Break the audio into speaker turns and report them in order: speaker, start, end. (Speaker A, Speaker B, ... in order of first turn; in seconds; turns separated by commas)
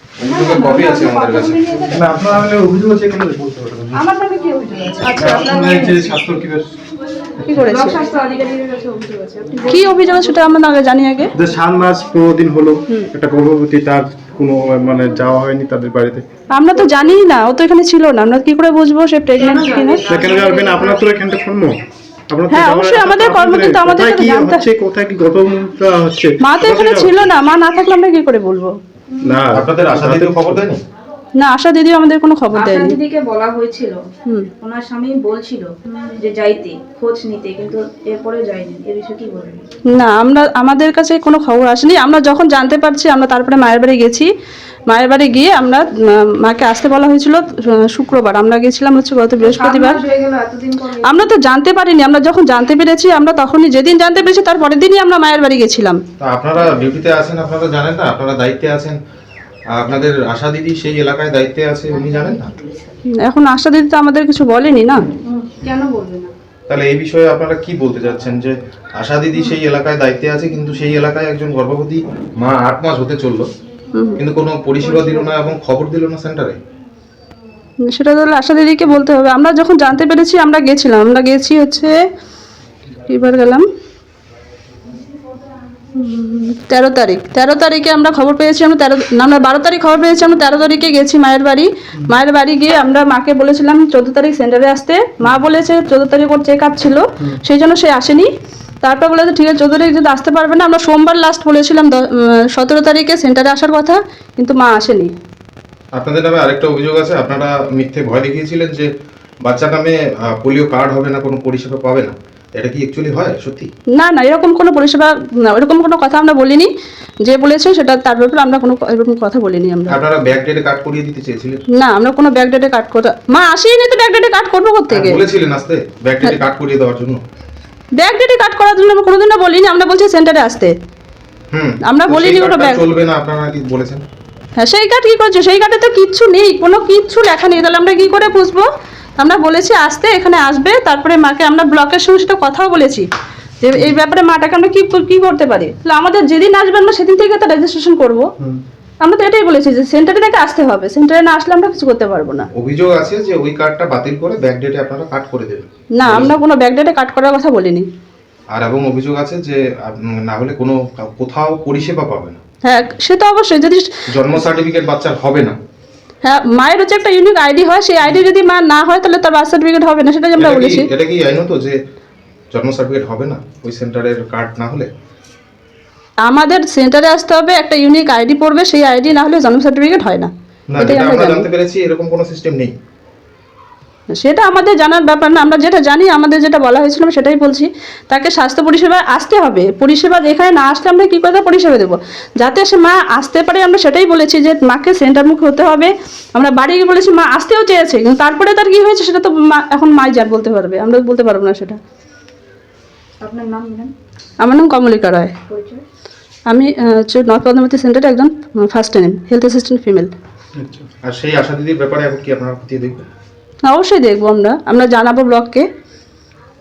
Speaker A: 0.2-1.8, Speaker B: 0.3-1.4, Speaker C: 0.4-2.0, Speaker D: 1.9-4.0, Speaker C: 3.9-6.2, Speaker D: 5.2-6.7, Speaker C: 7.4-8.1, Speaker B: 7.6-10.1, Speaker C: 9.7-11.3, Speaker D: 11.3-16.2, Speaker C: 16.5-20.1, Speaker B: 19.4-21.0, Speaker D: 20.1-27.3, Speaker C: 22.5-24.6, Speaker C: 26.4-28.7, Speaker D: 29.2-30.6, Speaker A: 29.5-30.8, Speaker C: 31.4-33.0, Speaker B: 32.5-34.0, Speaker B: 34.6-39.6, Speaker C: 39.9-44.3, Speaker C: 44.9-45.8, Speaker C: 46.4-50.0, Speaker B: 49.4-51.3, Speaker C: 51.0-56.0, Speaker A: 56.2-59.0, Speaker A: 59.8-62.5, Speaker C: 63.2-65.1, Speaker B: 65.2-66.3, Speaker A: 66.7-73.5, Speaker A: 74.2-76.6, Speaker B: 74.8-75.3, Speaker C: 77.9-81.9, Speaker C: 83.1-83.6, Speaker C: 86.0-98.3, Speaker C: 98.8-102.0, Speaker C: 102.5-105.1, Speaker A: 105.9-108.9, Speaker A: 109.4-113.7, Speaker C: 114.0-116.7, Speaker C: 117.2-120.0, Speaker A: 119.9-121.6, Speaker C: 121.8-125.2, Speaker A: 124.9-127.2, Speaker C: 128.0-130.7, Speaker A: 131.5-134.0, Speaker C: 131.8-132.8, Speaker C: 134.6-138.6, Speaker C: 139.2-143.1, Speaker C: 143.6-148.2, Speaker C: 149.0-152.5, Speaker A: 152.5-156.3, Speaker C: 155.9-157.8, Speaker A: 158.5-162.4, Speaker C: 162.7-163.9, Speaker A: 164.1-165.6, Speaker C: 166.2-170.9, Speaker A: 170.3-171.8, Speaker A: 172.5-174.9, Speaker C: 176.2-181.5, Speaker A: 180.7-182.7, Speaker C: 184.1-201.8, Speaker B: 203.2-203.9, Speaker C: 204.4-205.3, Speaker B: 205.5-205.8, Speaker C: 206.5-210.1, Speaker D: 210.6-210.9, Speaker A: 211.1-213.1, Speaker C: 213.7-215.7